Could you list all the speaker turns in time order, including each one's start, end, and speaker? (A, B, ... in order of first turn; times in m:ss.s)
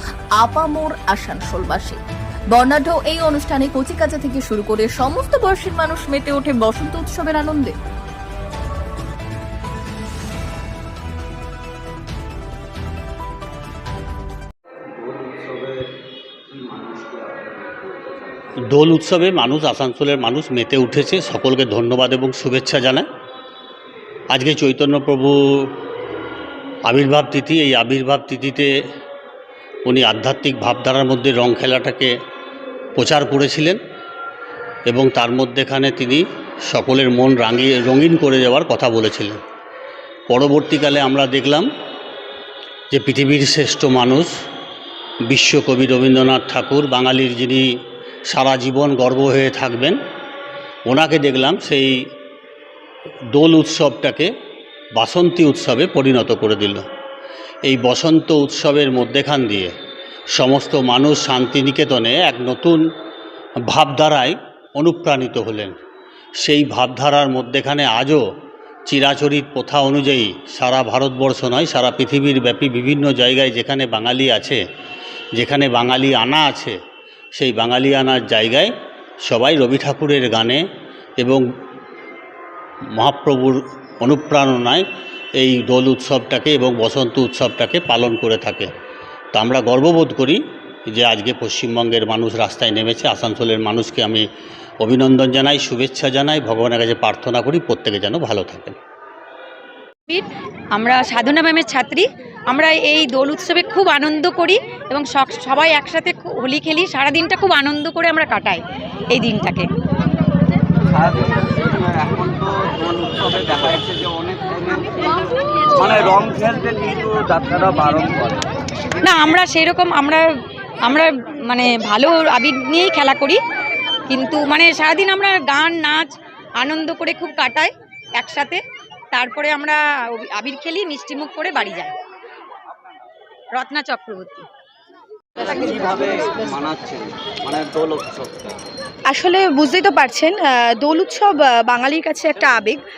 0:00.4-0:02.0 A
0:02.5-0:07.8 A
0:14.9-0:15.8 B
0:16.5-0:18.4 B
0:18.7-0:23.1 C
0:24.3-0:25.7 C
0:26.9-0:28.7 C
0:29.9-0:32.1 C
0:33.0-0:33.8 C
0:34.9-0:39.4 C
0:40.3-0:41.7 C
0:42.9-0:44.3 C
0:45.3-0:47.7 C
0:48.3-0:50.0 C
0:50.9-0:52.0 C
0:53.3-0:54.3 C
0:55.0-0:56.8 C
0:57.6-0:59.7 C
1:00.3-1:02.8 C
1:03.7-1:05.8 C
1:06.4-1:08.2 C
1:08.9-1:14.6 C
1:15.4-1:16.8 C
1:17.4-1:18.7 C
1:19.2-1:20.6 C
1:23.0-1:24.8 C
1:25.4-1:28.7 C
1:29.3-1:34.2 C
1:34.8-1:38.8 C
1:40.8-1:42.0 D
1:42.5-1:48.6 D
1:49.2-1:49.6 D
1:50.9-1:58.4 B
1:59.1-2:00.2 D
2:00.9-2:03.4 D
2:04.1-2:06.1 D
2:06.6-2:07.7 D
2:08.2-2:08.6 D
2:09.2-2:09.8 D
2:10.4-2:11.9 D
2:13.6-2:14.4 D
2:15.5-2:18.5 B
2:19.1-2:22.8 E